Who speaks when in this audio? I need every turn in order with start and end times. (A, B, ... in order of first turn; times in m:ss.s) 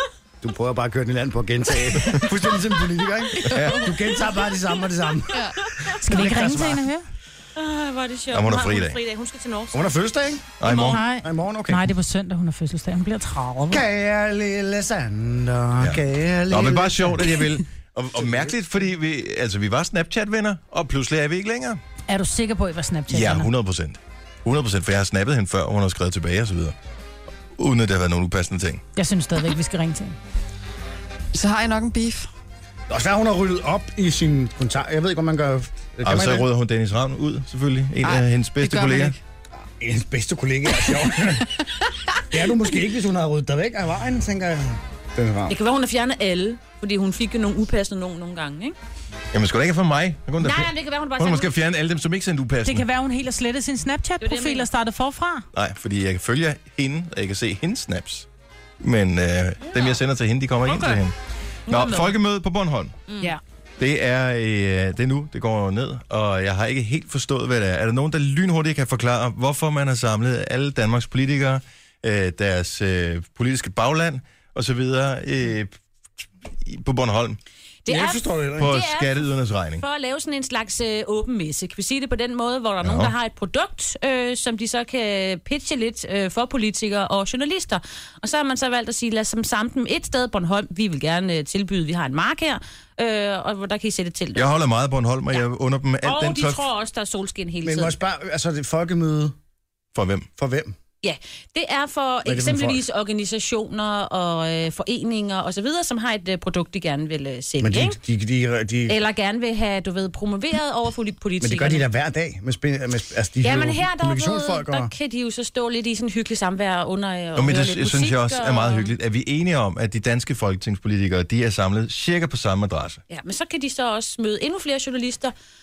0:00.4-0:05.4 A
0:03.4-0:03.9 B
0:03.5-0:04.0 C
0:05.3-0:05.6 C
0:05.6-0:05.9 D
0:06.0-0:07.0 E
0:06.0-0:06.8 A
0:07.6-0:09.9 D
0:08.3-0:09.0 B
0:09.7-0:10.6 A
0:10.6-0:11.0 B
0:10.6-0:11.0 D
0:10.7-0:13.8 E
0:11.1-0:11.8 A
0:13.7-0:17.3 A
0:15.8-0:21.8 B
0:18.2-0:18.5 A
0:22.1-0:23.5 E
0:23.1-0:26.7 B
0:27.6-0:28.8 B
0:29.0-0:30.2 E
0:31.3-0:32.3 C
0:32.9-0:36.5 A
0:36.0-0:39.1 B
0:38.0-0:39.2 C
0:39.8-0:41.5 A
0:42.3-0:45.5 A
0:45.5-0:48.8 D
0:49.3-0:52.8 B
0:50.4-0:51.5 D
0:52.6-0:55.4 E
0:54.2-0:54.7 D
0:55.5-0:58.3 B
0:58.8-1:01.1 B
0:59.7-1:00.0 D
1:00.6-1:01.0 D
1:01.7-1:02.1 D
1:01.7-1:03.0 B
1:03.1-1:03.3 D
1:03.8-1:15.7 B
1:16.5-1:17.4 B
1:17.8-1:34.5 D
1:17.9-1:18.8 A
1:18.6-1:19.8 B
1:22.8-1:23.1 B
1:34.3-1:36.6 B
1:36.0-1:38.0 D
1:37.6-1:39.3 A
1:39.9-1:40.3 B
1:40.4-1:40.7 A
1:41.0-1:48.0 D
1:42.2-1:42.8 A
1:47.6-1:49.0 A
1:48.9-1:51.8 D
1:51.4-1:54.9 A
1:53.4-1:58.9 D
1:57.4-2:03.0 B
2:03.1-2:05.3 D